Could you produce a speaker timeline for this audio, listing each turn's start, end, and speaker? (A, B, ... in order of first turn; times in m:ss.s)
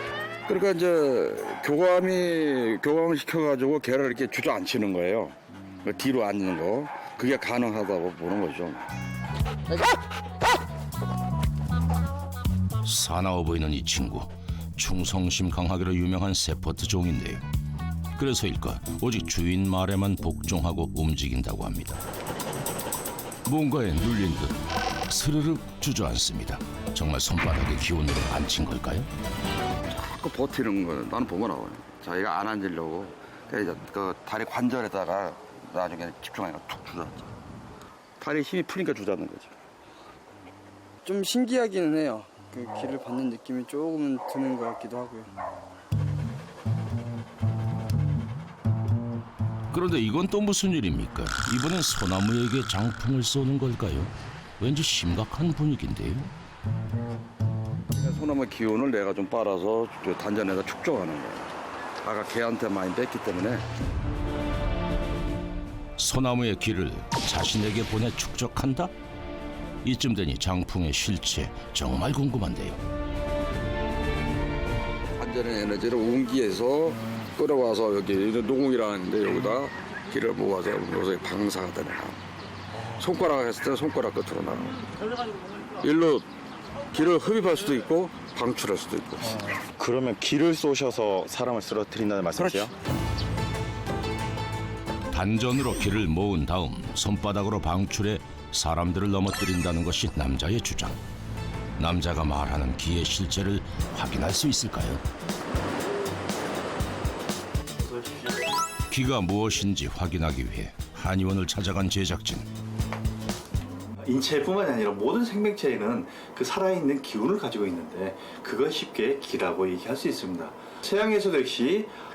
0:00.5-0:08.9 A
0:12.8-0:17.4 B
0:18.2-0:22.0 B
0:23.5-0:29.1 B
0:29.9-0:37.3 A
0:38.2-0:39.6 A
0:41.0-0:45.3 C
0:49.7-0:56.3 B
0:57.9-1:03.7 A
1:06.0-1:08.9 B
1:09.8-1:12.8 B
1:15.2-1:22.2 A
1:23.0-1:24.8 A
1:25.8-1:26.3 A
1:26.9-1:29.4 A
1:29.8-1:32.7 D
1:35.1-1:41.0 B
1:41.8-1:45.0 B
1:48.9-1:52.5 B
1:54.0-2:01.9 E